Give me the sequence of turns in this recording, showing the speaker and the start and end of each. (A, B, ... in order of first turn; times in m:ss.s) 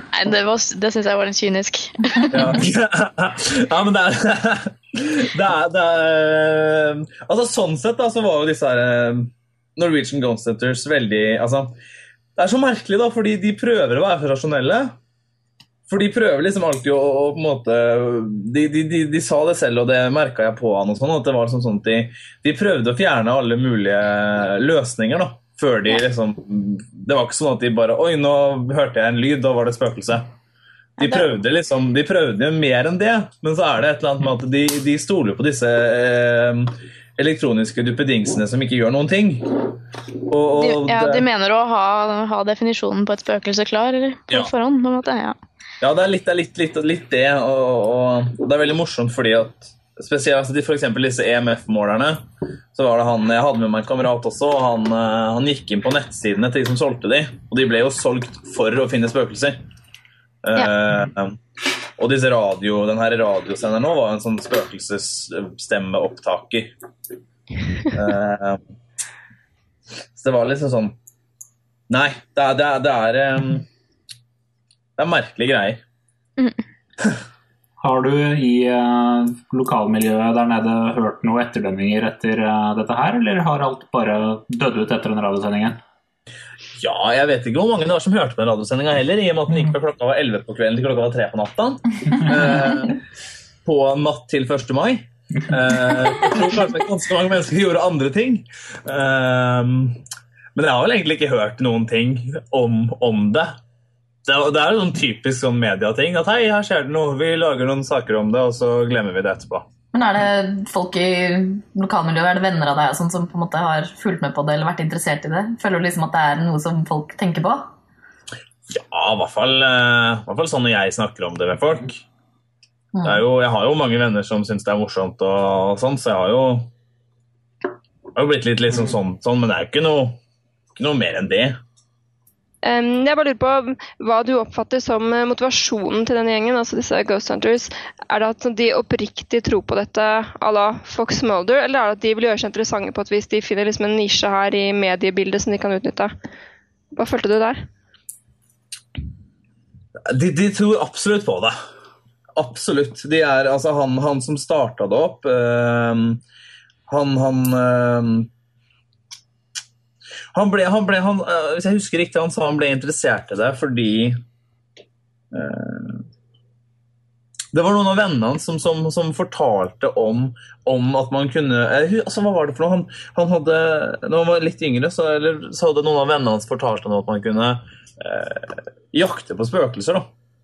0:00.1-0:02.6 A
0:02.3-0:11.7 B
0:12.4-0:14.9 B
0:15.9-0:30.3 B
0:31.0-0:31.3 A
0:31.0-0:39.7 B
0:40.3-0:41.2 B
0:40.5-0:45.4 A
0:45.8-0:52.2 B
0:52.7-0:59.6 B
1:00.4-1:01.4 B
1:02.0-1:06.7 B
1:07.9-1:08.6 B
1:10.1-1:11.0 B
1:11.9-1:13.6 B
1:15.0-1:15.8 B
1:17.8-1:25.8 C
1:26.8-1:33.0 B
1:33.6-1:40.0 B
1:40.5-1:43.6 B
1:44.2-1:49.6 B
1:49.9-1:57.7 D
1:58.7-2:02.0 B
2:02.9-2:03.2 D
2:03.0-2:06.7 B
2:08.1-2:10.2 B
2:10.8-2:11.6 B
2:12.6-2:26.1 E
2:26.9-2:27.6 E
2:30.1-2:31.5 B
2:32.4-2:36.2 B
2:36.9-2:38.3 B
2:40.3-2:44.2 B
2:45.3-2:46.0 B
2:47.5-3:00.1 B